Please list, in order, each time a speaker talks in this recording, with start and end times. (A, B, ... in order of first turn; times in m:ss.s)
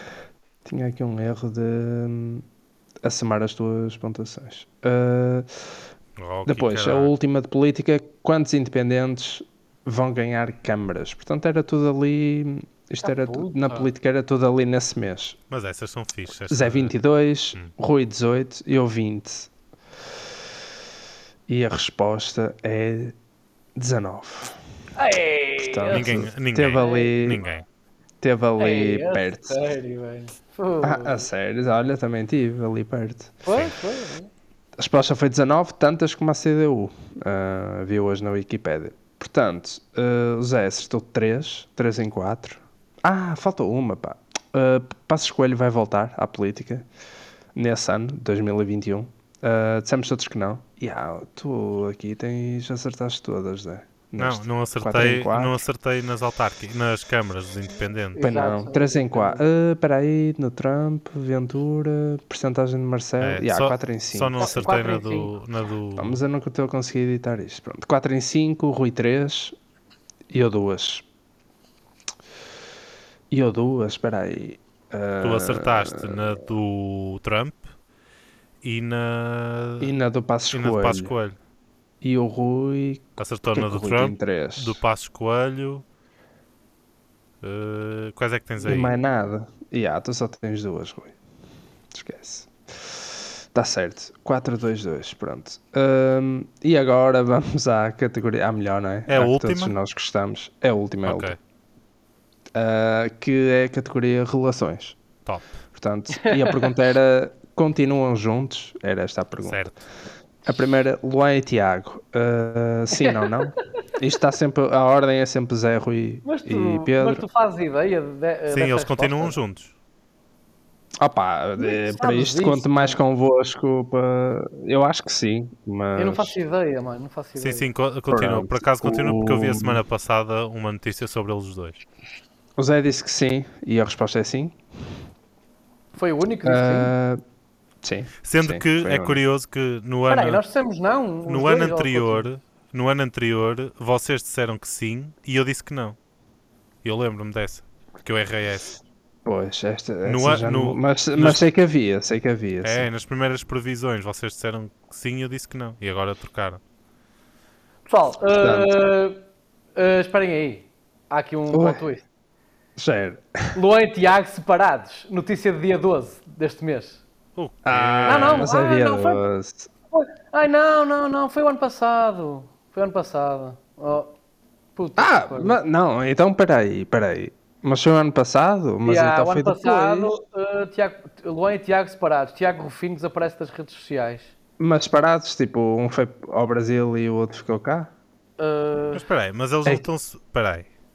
0:00.6-0:02.4 A
0:03.0-0:05.6 A
0:06.2-0:07.1 B
0:06.4-0:15.4 A
0:13.0-0:13.9 C
0:15.5-0:16.9 B
0:16.5-0:19.5 A
0:21.5-0:23.1 A
0:23.8-0:24.6 A
0:25.0-0:26.2 C
0:25.6-0:27.4 A
0:25.9-0:27.6 B
0:26.8-0:27.2 C
0:28.2-0:29.6 A
0:28.6-0:31.3 C
0:30.8-0:33.4 A
0:33.4-0:34.3 C
0:34.8-0:46.9 A
0:47.5-0:55.6 A
0:54.2-0:58.2 B
0:58.2-0:59.4 C
0:58.2-1:04.7 A
1:03.2-1:06.2 B
1:04.4-1:05.3 C
1:06.0-1:09.5 A
1:10.3-1:11.0 A
1:13.3-1:16.4 A
1:15.2-1:17.7 B
1:18.6-1:19.9 B
1:19.8-1:21.1 A
1:20.5-1:21.4 B
1:22.0-1:24.8 A
1:23.2-1:25.8 B
1:27.4-1:29.0 B
1:28.6-1:31.2 A
1:31.9-1:41.4 A
1:39.1-1:39.7 B
1:41.0-1:41.4 B
1:42.5-1:45.0 A
1:45.2-1:45.5 B
1:45.7-1:49.6 A
1:46.1-1:46.6 C
1:49.4-1:49.8 B
1:50.4-1:57.2 A
1:52.9-1:53.6 C
1:56.2-1:59.4 C
1:58.5-1:59.7 B
2:01.0-2:06.3 A
2:01.6-2:03.0 C
2:06.0-2:07.7 C
2:07.4-2:11.8 B
2:08.1-2:09.8 A
2:12.6-2:14.6 A
2:15.9-2:16.9 C
2:16.4-2:17.2 A
2:17.8-2:19.2 A
2:18.2-2:20.4 B
2:20.0-2:22.3 C
2:21.2-2:26.0 B
2:26.8-2:28.8 B
2:29.2-2:32.9 A
2:30.0-2:31.5 B
2:32.6-2:36.6 B
2:37.9-2:39.2 C
2:38.4-2:38.8 A
2:39.8-2:42.0 C
2:41.5-2:41.8 A
2:42.8-2:43.6 A
2:43.5-2:47.0 C
2:47.4-2:48.4 B
2:47.6-2:49.7 A
2:48.0-2:49.2 C
2:49.9-2:54.1 C
2:54.8-2:55.6 C
2:55.0-3:00.1 A
2:58.8-3:04.3 C
3:04.6-3:07.9 A
3:08.4-3:09.0 C
3:08.9-3:10.7 B